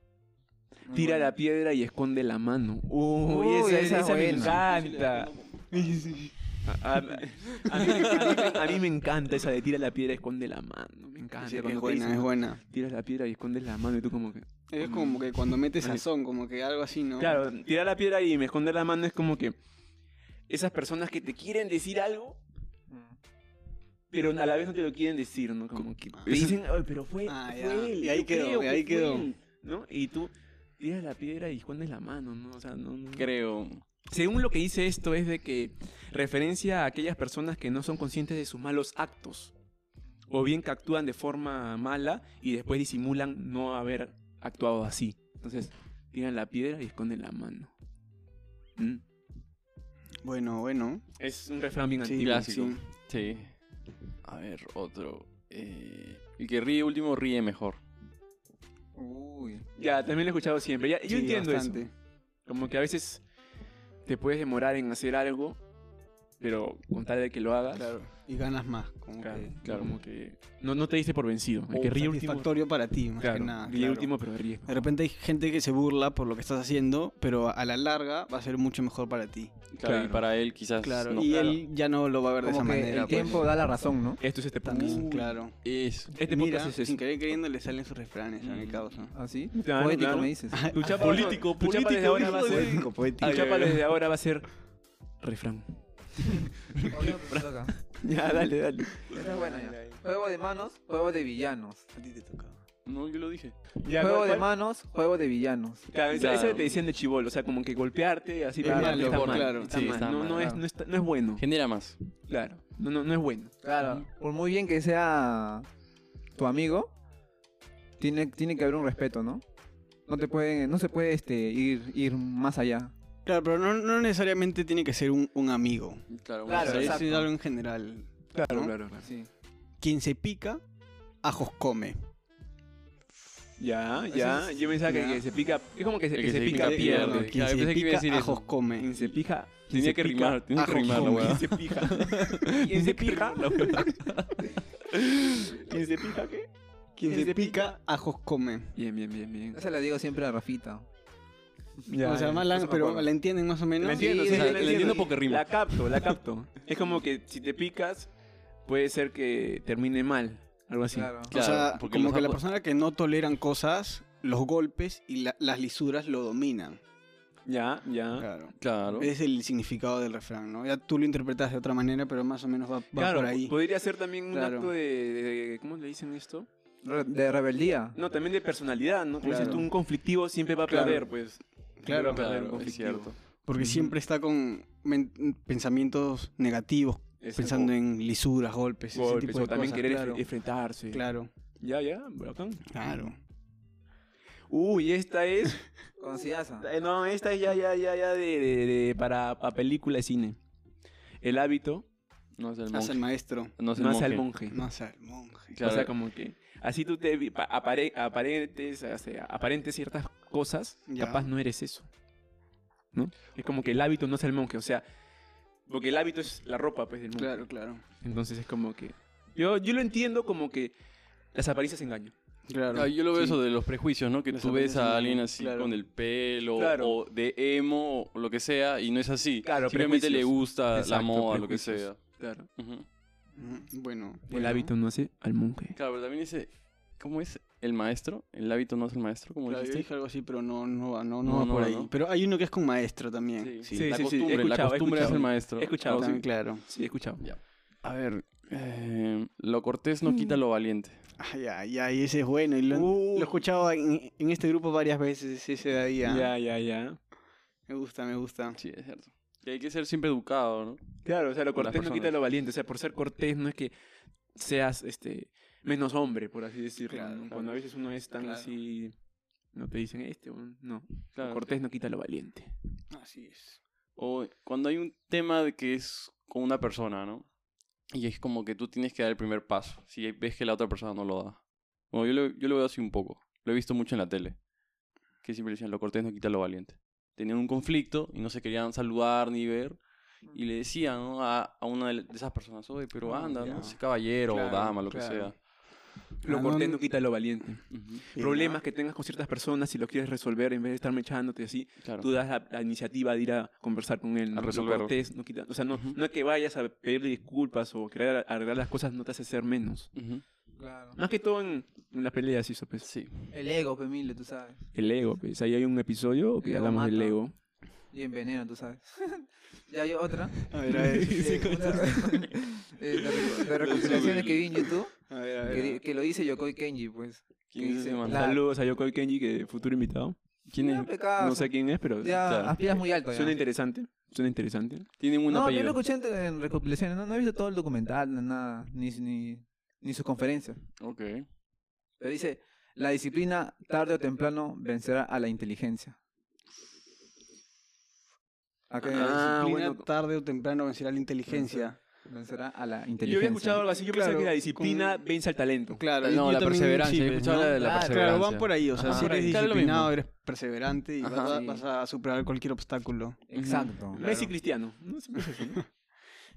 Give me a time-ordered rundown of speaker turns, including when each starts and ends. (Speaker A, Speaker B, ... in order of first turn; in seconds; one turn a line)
Speaker A: 0.9-1.3
Speaker B: 0.9-5.3
Speaker A: 3.2-4.6
Speaker C: 4.6-5.4
Speaker D: 5.6-6.3
Speaker B: 6.7-16.0
Speaker C: 7.7-8.6
Speaker D: 11.4-12.6
Speaker D: 14.7-17.4
Speaker B: 17.2-19.6
Speaker B: 20.5-22.4
Speaker A: 22.9-23.2
Speaker B: 24.1-33.3
Speaker D: 26.2-26.5
Speaker D: 27.3-29.3
Speaker C: 33.2-33.8
Speaker B: 34.1-39.5
Speaker B: 40.3-47.7
Speaker B: 48.8-49.0
Speaker D: 50.2-51.0
Speaker B: 51.2-52.5
Speaker D: 52.0-52.8
Speaker C: 52.2-53.5
Speaker C: 54.2-57.8
Speaker A: 59.0-59.7
Speaker B: 59.8-61.9
Speaker D: 61.1-61.9
Speaker B: 62.5-63.2
Speaker B: 64.1-65.6
Speaker B: 66.4-68.0
Speaker D: 67.7-69.5
Speaker B: 69.2-72.6
Speaker C: 69.7-70.0
Speaker D: 71.7-74.1
Speaker B: 73.2-74.8
Speaker D: 74.7-79.5
Speaker C: 79.7-81.6
Speaker B: 79.8-80.2
Speaker D: 80.8-83.5
Speaker A: 82.4-84.2
Speaker B: 84.2-85.3
Speaker D: 84.6-85.6
Speaker C: 85.6-86.1
Speaker D: 86.1-89.1
Speaker B: 86.1-87.0
Speaker C: 88.4-88.9
Speaker A: 89.1-90.7
Speaker B: 89.6-94.5
Speaker D: 90.5-91.5
Speaker C: 90.9-93.8
Speaker D: 92.2-93.5
Speaker B: 95.2-95.7
Speaker C: 96.8-97.4
Speaker A: 96.9-97.7
Speaker B: 97.9-100.0
Speaker A: 99.1-101.9
Speaker D: 102.0-102.6
Speaker C: 102.8-103.5
Speaker B: 103.8-104.5
Speaker A: 104.0-105.9
Speaker B: 105.9-111.4
Speaker C: 106.1-106.7
Speaker D: 108.6-110.0
Speaker C: 108.7-110.6
Speaker A: 110.3-110.6
Speaker C: 111.4-112.0
Speaker B: 112.3-113.6
Speaker A: 113.6-115.7
Speaker C: 113.8-114.0
Speaker A: 116.3-116.9
Speaker A: 118.0-119.4
Speaker A: 120.1-122.9
Speaker D: 123.2-128.7
Speaker C: 126.1-127.2
Speaker A: 126.5-127.3
Speaker B: 128.3-129.1
Speaker A: 129.0-129.3
Speaker D: 129.8-130.6
Speaker D: 131.2-132.0
Speaker B: 133.6-137.3
Speaker D: 134.1-135.2
Speaker C: 136.2-138.5
Speaker D: 136.5-138.9
Speaker B: 138.8-144.1
Speaker C: 139.7-144.5
Speaker D: 140.6-141.6
Speaker B: 144.9-146.5
Speaker D: 147.0-148.7
Speaker B: 147.1-147.8
Speaker B: 148.8-149.6
Speaker A: 149.5-150.9
Speaker B: 151.9-153.1
Speaker D: 152.0-155.0
Speaker B: 153.8-158.1
Speaker A: 153.9-154.6
Speaker C: 154.1-156.2
Speaker B: 158.7-161.2
Speaker A: 160.9-161.3
Speaker C: 161.3-162.4
Speaker D: 161.3-166.8
Speaker B: 167.5-168.3
Speaker D: 168.2-173.6
Speaker C: 168.6-169.1
Speaker B: 172.9-176.5
Speaker D: 174.3-174.7
Speaker A: 176.8-178.0
Speaker B: 177.9-183.9
Speaker D: 179.2-179.7
Speaker A: 179.3-179.6
Speaker D: 180.7-181.0
Speaker C: 180.8-181.4
Speaker D: 181.8-182.3
Speaker C: 182.0-183.2
Speaker D: 183.5-190.1
Speaker B: 187.2-187.7
Speaker B: 188.9-191.1
Speaker A: 189.7-190.2
Speaker D: 190.9-191.3
Speaker B: 191.6-192.7
Speaker D: 192.7-193.2
Speaker B: 194.5-195.6
Speaker A: 196.0-196.7
Speaker B: 196.6-200.4
Speaker B: 201.2-201.9
Speaker C: 202.4-203.0
Speaker D: 202.7-203.6
Speaker C: 203.6-204.3
Speaker B: 203.8-204.6
Speaker D: 204.5-205.6
Speaker C: 205.5-205.9
Speaker B: 205.6-211.9
Speaker D: 210.9-211.3
Speaker B: 212.9-214.8
Speaker B: 215.7-217.5
Speaker D: 217.1-217.8
Speaker B: 218.0-220.8
Speaker B: 221.3-222.1
Speaker D: 222.5-223.4
Speaker C: 222.7-232.0
Speaker D: 224.3-225.8
Speaker B: 226.6-227.0
Speaker B: 229.4-232.5
Speaker C: 232.6-232.9
Speaker D: 233.4-234.7
Speaker B: 234.3-235.8
Speaker C: 235.7-239.9
Speaker D: 239.5-244.0
Speaker C: 241.2-241.9
Speaker C: 243.4-246.2
Speaker B: 243.7-247.3
Speaker D: 245.9-246.6
Speaker C: 247.2-251.0
Speaker D: 251.2-256.3
Speaker B: 252.7-253.4
Speaker B: 256.1-257.0
Speaker D: 257.7-258.6
Speaker C: 258.6-260.8
Speaker B: 261.1-263.7
Speaker C: 261.6-262.1
Speaker B: 264.4-268.9
Speaker D: 266.9-267.6
Speaker D: 268.2-268.5
Speaker B: 269.5-272.5
Speaker C: 271.2-271.4
Speaker D: 272.9-273.6
Speaker C: 274.0-277.3
Speaker C: 277.9-284.4
Speaker C: 285.2-295.4
Speaker D: 293.0-293.8
Speaker D: 294.3-295.3
Speaker D: 296.2-296.8
Speaker B: 296.2-309.9
Speaker C: 297.7-298.0
Speaker D: 298.1-298.6
Speaker C: 301.8-302.1
Speaker C: 304.3-304.9
Speaker C: 309.9-310.2
Speaker A: 310.6-311.0
Speaker B: 311.0-312.9
Speaker C: 312.8-313.3
Speaker A: 313.3-314.6
Speaker B: 314.7-317.3
Speaker A: 316.4-317.2
Speaker A: 317.9-320.4
Speaker D: 320.5-321.7
Speaker B: 320.7-322.3
Speaker A: 321.1-324.9
Speaker B: 323.4-324.2
Speaker C: 323.5-324.4
Speaker D: 325.1-325.8
Speaker A: 325.4-328.4
Speaker C: 327.5-328.4
Speaker B: 328.1-330.2
Speaker C: 330.5-330.9
Speaker A: 330.6-333.4
Speaker B: 331.2-332.2
Speaker C: 332.2-332.6
Speaker B: 333.1-334.9
Speaker C: 335.0-335.8
Speaker A: 335.3-340.6
Speaker C: 340.8-341.3
Speaker A: 342.0-346.0
Speaker A: 348.7-349.2
Speaker B: 348.9-349.9
Speaker D: 348.9-351.8
Speaker A: 351.3-354.3
Speaker B: 353.0-355.8
Speaker D: 354.6-355.0
Speaker D: 355.7-363.3
Speaker C: 356.0-359.9
Speaker A: 357.6-358.2
Speaker A: 358.9-359.3
Speaker C: 361.0-361.4
Speaker A: 361.2-361.6
Speaker A: 363.3-364.2
Speaker C: 363.4-363.7
Speaker B: 363.9-365.7